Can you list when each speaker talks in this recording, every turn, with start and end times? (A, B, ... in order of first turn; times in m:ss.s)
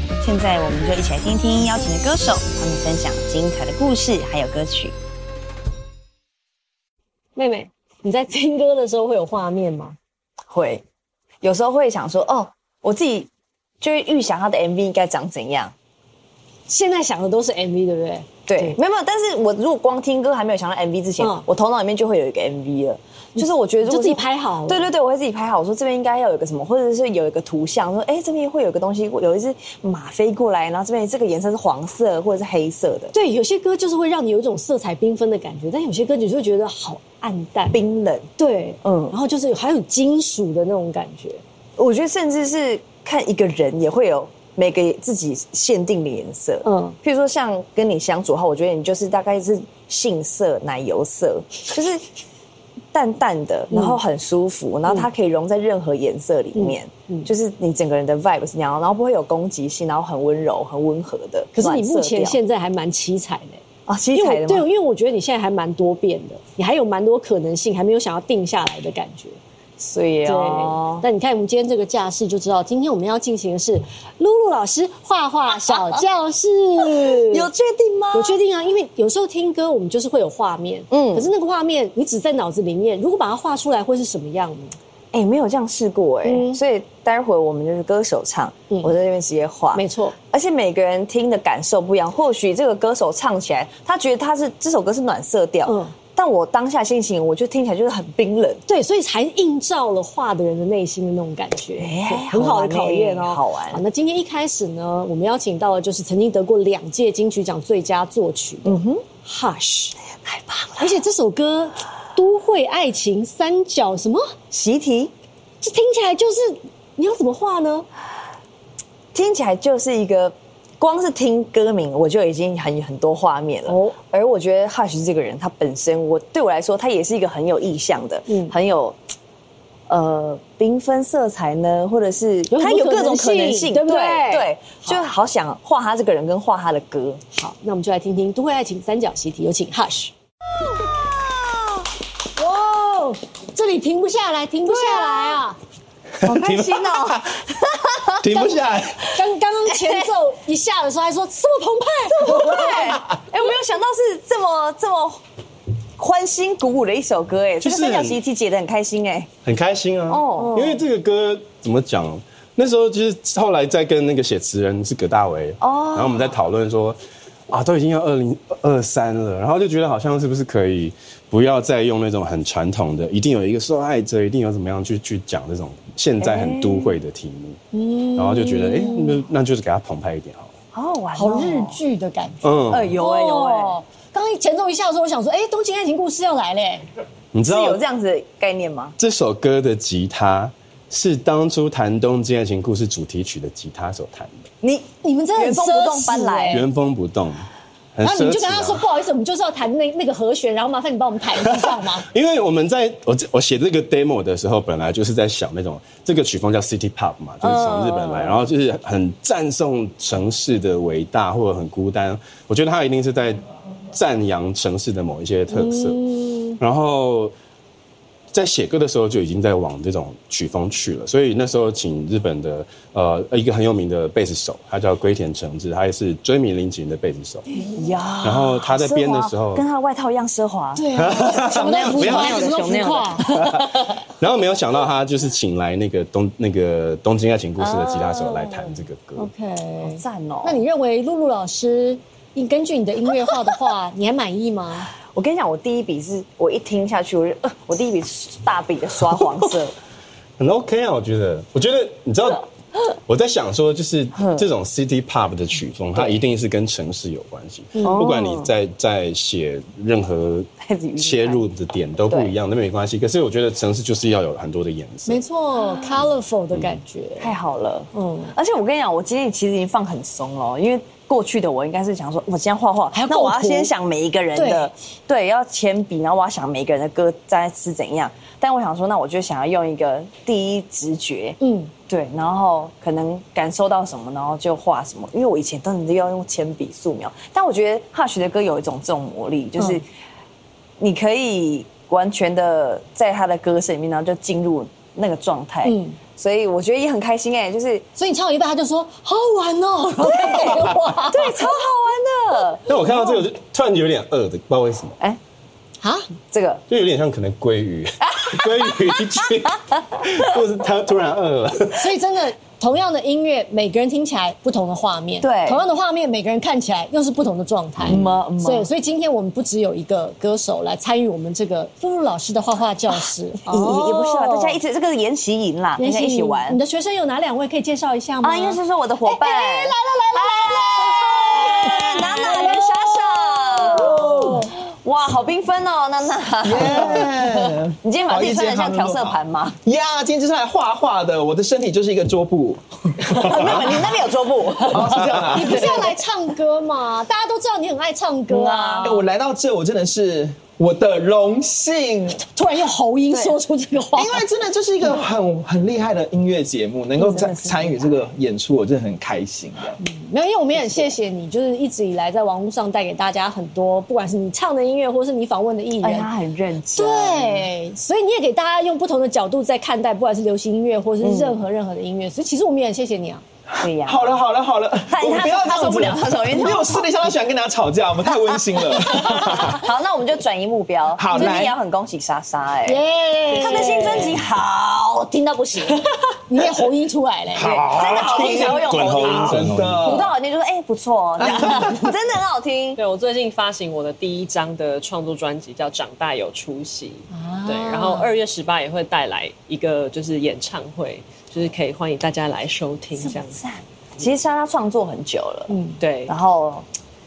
0:00.2-0:04.9 A
0:07.4-0:10.0 B
0:10.5-0:10.8 A
0:11.4-0:13.3 A
0:13.8-0:15.7 A
0:16.7-0:18.8 B
0:18.5-0:33.1 A
0:21.2-0:21.4 B
0:23.4-0:24.9 B
0:33.1-0:37.8 B
0:37.7-0:38.3 A
0:38.4-0:41.4 B
0:38.8-0:39.1 A
0:41.8-0:52.0 A
0:46.6-0:47.0 B
0:52.9-1:02.4 A
0:53.7-0:54.0 B
0:56.5-0:57.3 B
1:01.6-1:03.6 B
1:03.9-1:04.7 A
1:04.1-1:09.4 B
1:09.8-1:11.0 A
1:10.2-1:17.5 B
1:17.0-1:18.4 A
1:18.1-1:24.8 B
1:20.9-1:21.3 A
1:25.1-1:38.6 A
1:26.2-1:26.6 B
1:29.8-1:30.2 B
1:35.7-1:35.9 B
1:38.7-1:50.0 B
1:41.8-1:43.8 A
1:48.6-1:49.0 A
1:50.2-1:51.0 A
1:50.8-1:54.3 B
1:54.5-1:55.1 A
1:55.6-1:57.9 B
1:59.1-2:09.0 A
2:03.7-2:04.0 B
2:08.3-2:08.5 B
2:09.9-2:17.2 A
2:12.5-2:15.0 B
2:17.3-2:20.1 B
2:20.8-2:21.8 A
2:22.4-2:25.6 B
2:24.7-2:25.4 A
2:26.2-2:27.3 C
2:26.2-2:28.2 A
2:28.2-2:29.0 C
2:28.3-2:33.0 B
2:29.7-2:30.1 A
2:32.1-2:35.2 A
2:36.0-2:39.3 A
2:37.6-2:38.2 C
2:39.4-2:47.0 C
2:40.1-2:40.6 A
2:40.4-2:40.8 B
2:45.6-2:46.3 A
2:47.5-2:57.6 C
2:56.2-2:57.0 A
2:57.7-2:59.2 B
2:58.1-3:00.5 C
3:00.7-3:01.8 A
3:01.2-3:06.8 B
3:02.4-3:03.0 C
3:02.7-3:03.8 A
3:07.3-3:07.8 C
3:07.4-3:09.0 A
3:09.0-3:14.4 C
3:14.6-3:16.6 A
3:15.0-3:16.6 B
3:16.5-3:18.8 C
3:18.0-3:22.0 B
3:21.4-3:36.0 C
3:27.4-3:28.4 A
3:35.5-3:36.6 B
3:36.6-3:37.3 C
3:38.3-3:47.4 C
3:47.5-3:47.8 B
3:47.6-3:53.9 A
3:48.2-3:49.6 C
3:50.8-3:53.6 B
3:50.9-3:52.6 C
3:53.3-3:59.3 C
3:57.6-3:58.8 A
3:59.2-4:04.9 B
3:59.8-4:00.6 A
4:05.1-4:09.8 A
4:10.4-4:12.4 C
4:13.1-4:25.2 C
4:14.2-4:14.4 A
4:15.9-4:16.2 A
4:17.8-4:18.0 B
4:17.8-4:18.5 A
4:20.6-4:21.4 A
4:25.1-4:27.3 B
4:27.2-4:41.4 A
4:27.9-4:28.3 B
4:32.9-4:33.7 B
4:34.3-4:34.7 B
4:41.4-4:41.7 B
4:41.9-4:49.8 A
4:50.8-4:57.8 A
4:55.6-4:56.0 B
4:58.0-5:01.5 B
5:00.0-5:02.6 A
5:02.7-5:05.0 C
5:05.8-5:06.1 B
5:06.3-5:06.6 A
5:06.7-5:11.9 C
5:08.1-5:09.0 A
5:11.8-5:24.6 B
5:15.2-5:15.6 A
5:17.9-5:18.7 A
5:23.5-5:26.6 A
5:25.8-5:34.6 B
5:28.2-5:39.6 A
5:33.8-5:34.4 D
5:36.4-5:43.8 D
5:43.1-5:45.9 A
5:44.7-5:45.8 D
5:45.3-5:49.0 B
5:48.3-5:49.0 A
5:48.8-5:52.2 D
5:52.3-5:54.2 B
5:53.1-5:53.4 A
5:53.9-5:59.8 D
5:57.0-5:58.1 A
5:59.8-6:06.1 B
6:00.6-6:00.9 A
6:05.8-6:07.5 A
6:06.8-6:13.2 B
6:11.0-6:11.4 A
6:13.5-6:19.6 D
6:13.6-6:14.2 A
6:14.9-6:16.8 A
6:16.5-6:16.8 B
6:18.7-6:22.8 A
6:21.0-6:21.6 D
6:22.6-6:24.2 B
6:23.3-6:25.8 A
6:23.4-6:24.1 E
6:26.3-6:27.7 B
6:27.3-6:30.0 C
6:27.5-6:32.8 A
6:27.8-6:30.1 D
6:31.2-6:31.8 D
6:32.8-6:43.4 E
6:37.1-6:38.1 B
6:44.0-6:45.5 A
6:45.5-6:45.8 B
6:45.8-6:46.1 E
6:46.1-6:46.6 A